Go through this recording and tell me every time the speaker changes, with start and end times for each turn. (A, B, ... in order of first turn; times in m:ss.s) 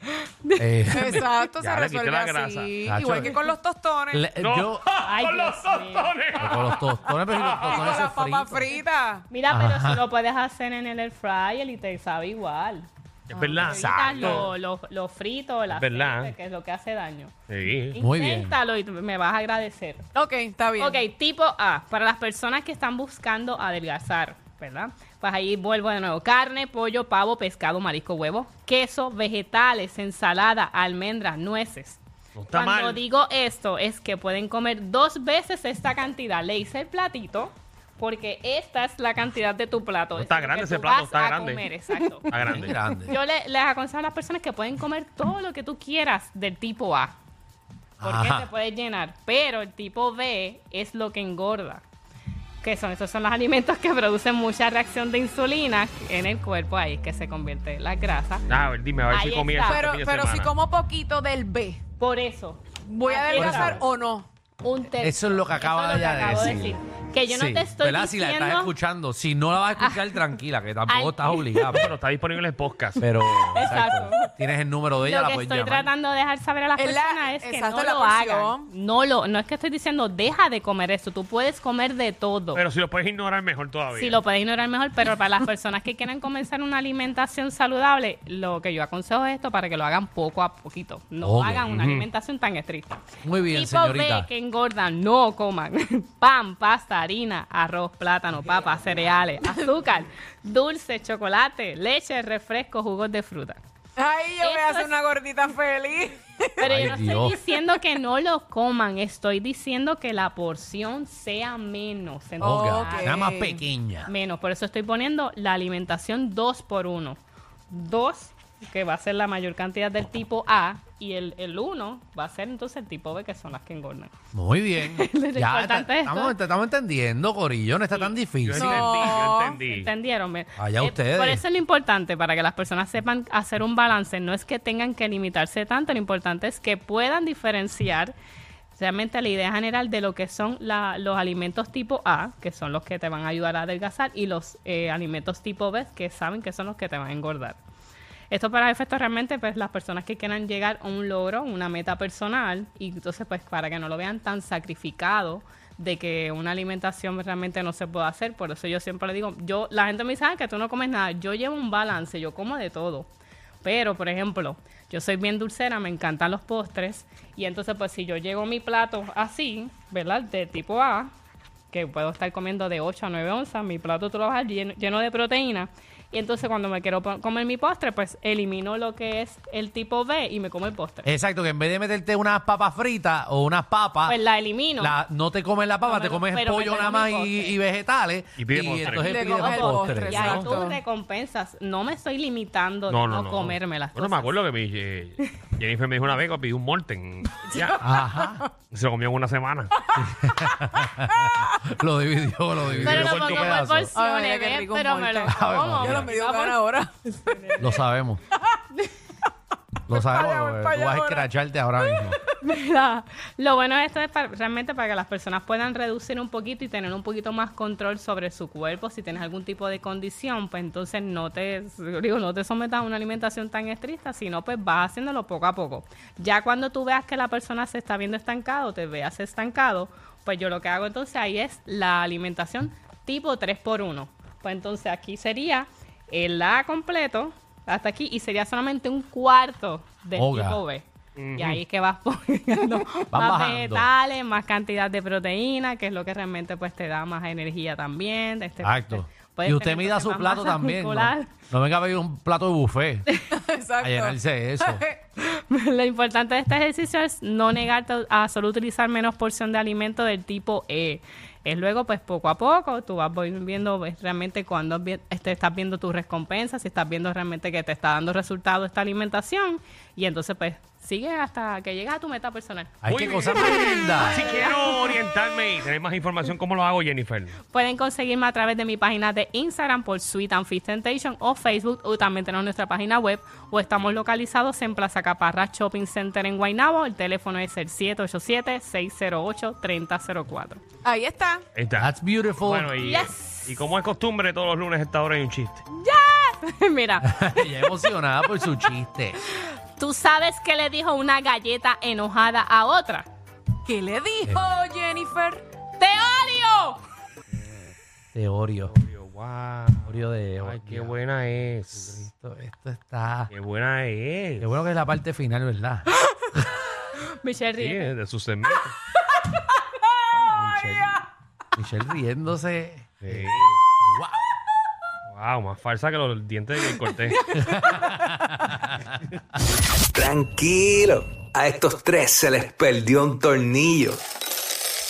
0:00.6-0:01.3 A
0:00.9-0:04.3 B
0:01.6-0:02.7 C
0:02.8-0:03.4 A
0:04.1-0:04.8 A
0:04.4-0:08.0 C
0:05.0-0:06.1 D
0:06.4-0:08.8 A
0:07.6-0:09.2 B
0:09.3-0:17.3 D
0:09.5-0:10.0 A
0:13.3-0:14.5 C
0:13.6-0:14.4 A
0:15.7-0:16.3 C
0:17.5-0:18.0 C
0:17.9-0:20.0 D
0:18.0-0:18.6 A
0:20.1-0:21.0 B
0:20.8-0:32.0 D
0:32.4-0:33.0 C
0:32.5-0:47.1 D
0:40.1-0:41.6 C
0:42.3-0:42.7 C
0:42.3-0:43.2 A
0:48.0-0:48.5 A
0:48.0-0:51.8 D
0:52.6-0:58.4 D
0:58.5-1:00.5 C
0:59.1-0:59.8 D
0:59.6-1:01.8 B
1:02.0-1:03.8 D
1:02.8-1:04.3 B
1:03.4-1:03.8 A
1:04.6-1:08.7 D
1:05.0-1:11.9 A
1:09.8-1:10.2 D
1:10.9-1:11.8 D
1:11.7-1:13.0 C
1:13.0-1:15.9 A
1:13.2-1:14.3 D
1:15.0-1:22.6 D
1:16.8-1:18.7 B
1:22.5-1:24.2 C
1:24.0-1:43.6 D
1:31.2-1:31.8 A
1:31.7-1:32.0 C
1:33.2-1:34.3 A
1:44.0-1:46.9 B
1:44.4-1:44.9 D
1:46.6-1:53.2 D
1:46.6-1:47.4 A
1:52.4-1:53.6 B
1:52.4-1:54.1 A
1:54.0-1:57.2 D
1:57.7-2:04.1 D
2:04.3-2:09.1 A
2:04.8-2:06.4 D
2:08.4-2:09.9 C
2:08.5-2:09.6 B
2:09.0-2:18.1 D
2:10.6-2:11.4 A
2:18.7-2:27.6 D
2:28.3-2:43.1 D
2:43.6-2:51.1 D
2:51.7-3:01.1 D
3:01.0-3:04.2 A
3:04.0-3:04.9 D
3:04.8-3:10.4 A
3:05.8-3:07.6 D
3:08.4-3:09.2 C
3:08.9-3:10.8 B
3:09.0-3:14.4 D
3:10.2-3:10.5 C
3:12.9-3:17.8 C
3:17.6-3:18.5 B
3:17.8-3:18.4 A
3:18.7-3:19.7 C
3:20.0-3:23.9 A
3:20.8-3:21.6 B
3:22.6-3:23.6 C
3:22.8-3:27.5 D
3:23.9-3:27.7 B
3:25.3-3:26.2 A
3:27.6-3:28.2 A
3:29.9-3:32.2 A
3:29.9-3:32.2 B
3:32.4-4:11.3 D
4:00.2-4:00.6 A
4:01.2-4:01.6 C
4:03.1-4:03.9 A
4:08.6-4:13.0 A
4:13.3-4:15.0 B
4:13.8-4:14.8 A
4:15.2-4:32.7 D
4:32.8-4:34.3 A
4:32.8-4:37.4 C
4:33.9-4:35.0 D
4:37.5-4:50.6 D
4:50.8-4:51.4 B
4:51.5-4:55.6 C
4:51.8-4:52.8 A
4:52.8-4:53.5 D
4:55.8-4:57.7 D
4:57.0-4:59.2 A
4:59.8-5:03.1 D
5:03.6-5:05.4 B
5:05.8-5:06.8 D
5:08.1-5:08.7 A
5:08.6-5:12.1 C
5:09.8-5:11.0 A
5:11.8-5:13.3 A
5:13.3-5:14.5 C
5:14.4-5:16.5 A
5:17.0-5:17.9 D
5:17.6-5:18.8 C
5:20.1-5:24.2 A
5:23.0-5:23.6 C
5:25.1-5:27.4 C
5:27.4-5:28.9 A
5:27.4-5:27.9 B
5:29.9-5:34.0 E